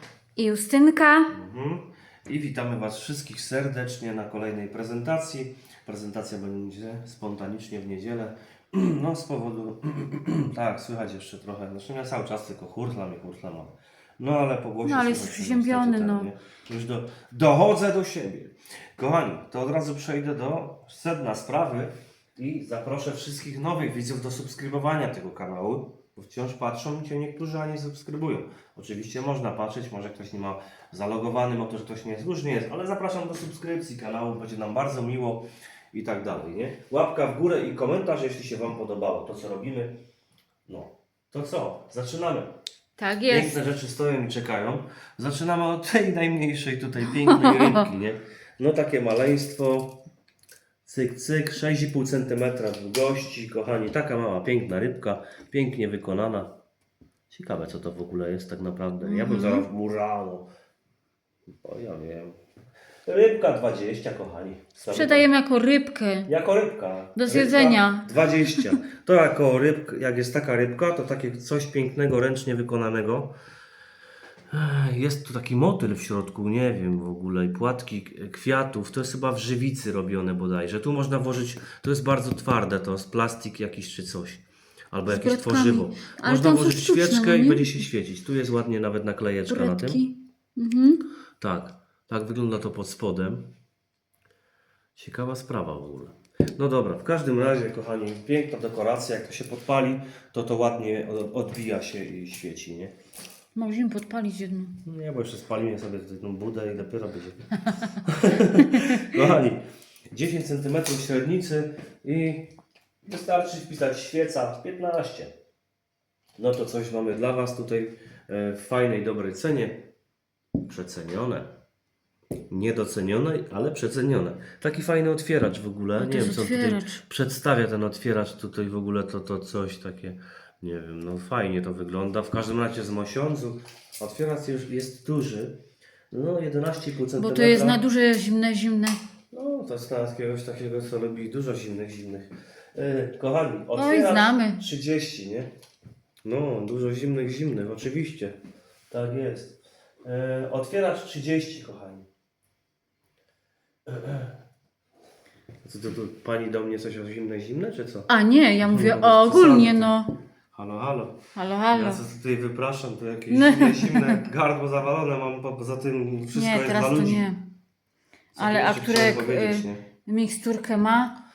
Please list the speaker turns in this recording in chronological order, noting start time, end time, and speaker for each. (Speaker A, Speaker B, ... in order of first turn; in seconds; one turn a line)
Speaker A: 0.4-1.3
Speaker B: 1.3-40.0
Speaker A: 14.8-16.3
Speaker B: 40.7-42.5
Speaker A: 43.0-43.6
Speaker B: 43.3-50.0
Speaker A: 47.3-47.9
Speaker B: 50.8-56.5
Speaker B: 57.3-60.5
Speaker A: 59.0-59.7
Speaker B: 61.6-62.4
Speaker B: 63.0-65.3
Speaker A: 64.8-66.3
Speaker B: 66.2-73.3
Speaker A: 67.2-68.1
Speaker B: 74.5-90.0
Speaker A: 85.1-87.8
Speaker A: 89.5-91.0
Speaker B: 91.4-93.5
Speaker B: 95.0-102.9
Speaker A: 103.5-104.8
Speaker B: 104.8-107.5
Speaker B: 108.0-115.3
Speaker B: 116.4-119.8
Speaker B: 120.6-121.5
Speaker B: 122.5-135.6
Speaker A: 126.0-127.0
Speaker B: 136.1-137.8
Speaker A: 137.2-139.0
Speaker B: 139.3-145.5
Speaker A: 143.8-144.6
Speaker B: 146.2-148.4
Speaker B: 148.9-152.1
Speaker B: 153.8-154.3
Speaker B: 155.6-158.1
Speaker A: 158.1-160.1
Speaker B: 158.6-159.9
Speaker B: 160.5-161.2
Speaker A: 161.3-162.0
Speaker B: 161.7-167.3
Speaker A: 163.3-164.2
Speaker A: 166.3-167.4
Speaker B: 168.3-169.8
Speaker A: 168.4-171.2